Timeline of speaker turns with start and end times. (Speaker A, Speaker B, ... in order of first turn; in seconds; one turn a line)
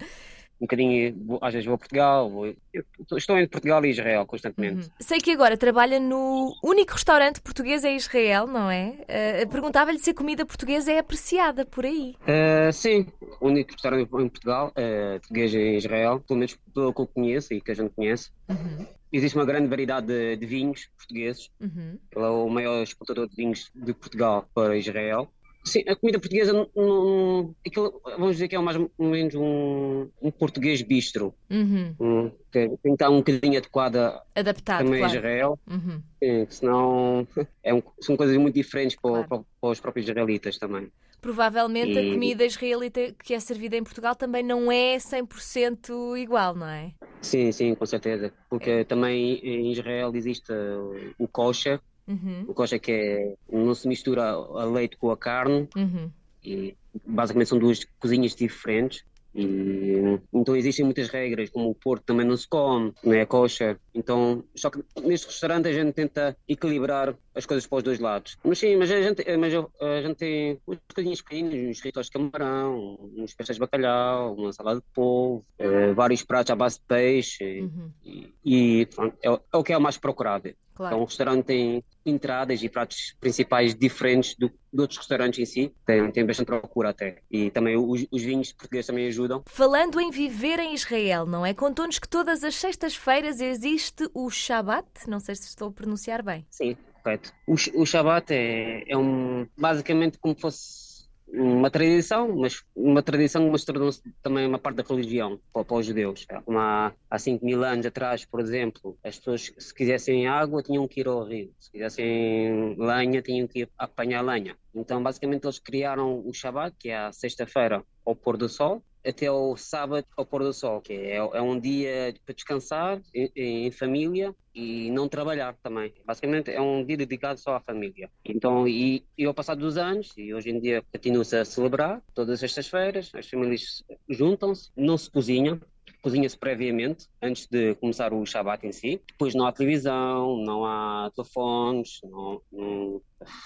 Speaker A: 0.6-4.8
Speaker B: 4.6-12.2
Speaker A: 12.3-18.3
Speaker B: 18.5-18.9
Speaker A: 19.1-21.5
Speaker B: 21.6-22.0
Speaker A: 22.1-31.3
Speaker B: 31.5-32.0
Speaker A: 32.0-34.2
Speaker B: 34.4-36.0
Speaker A: 34.8-35.6
Speaker A: 36.2-40.9
Speaker B: 39.0-39.3
Speaker B: 41.2-46.9
Speaker A: 41.8-42.3
Speaker A: 47.2-51.8
Speaker B: 52.1-52.5
Speaker A: 52.5-55.7
Speaker B: 55.8-56.1
Speaker A: 56.4-89.4
Speaker B: 77.6-77.9
Speaker B: 80.7-81.0
Speaker B: 89.5-96.4
Speaker A: 96.5-143.1